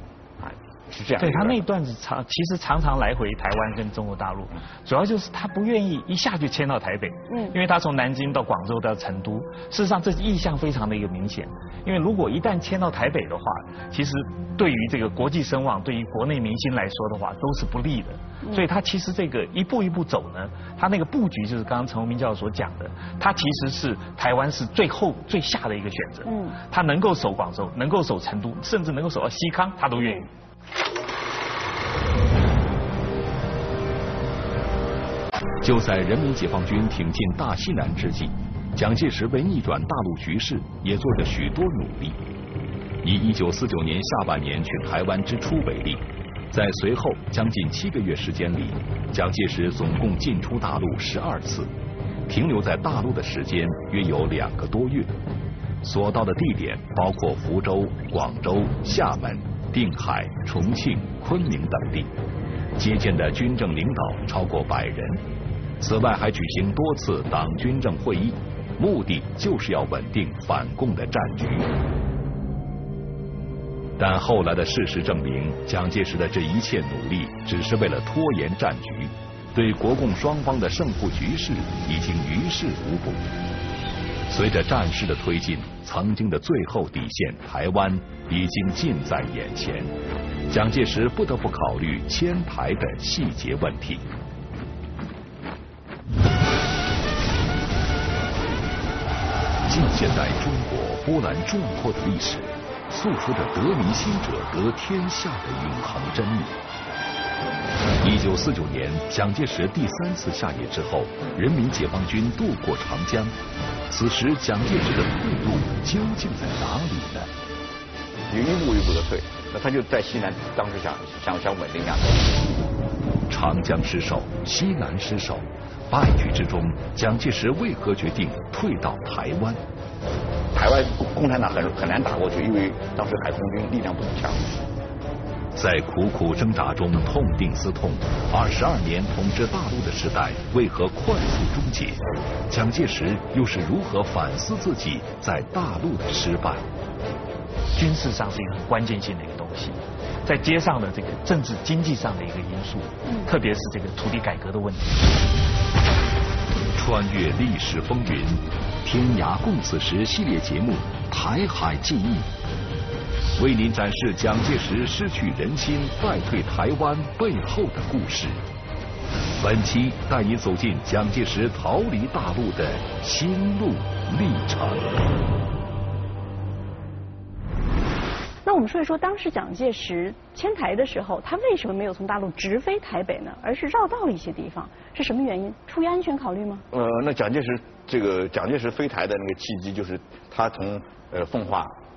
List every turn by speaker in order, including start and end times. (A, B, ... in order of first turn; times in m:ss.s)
0:00.4-0:01.6 A
0:01.2-0:30.3 B
0:07.3-0:07.6 C
0:26.3-0:26.6 C
0:30.0-0:30.2 C
0:35.6-0:42.2 D
0:43.0-0:51.7 D
0:52.3-0:55.2 D
0:55.8-1:02.1 D
1:02.8-1:05.2 D
1:05.8-1:11.7 D
1:14.0-1:23.3 D
1:24.3-1:29.9 D
1:30.5-1:34.1 D
1:39.7-1:46.6 D
1:48.0-1:53.3 D
1:53.9-1:57.3 D
1:58.3-2:02.3 A
2:03.3-2:09.6 D
2:10.5-2:14.5 A
2:15.5-2:26.6 D
2:27.7-2:35.1 B
2:36.7-2:42.3 D
2:43.4-2:48.4 D
2:49.4-2:55.0 D
2:58.4-3:06.6 C
3:06.7-3:11.7 A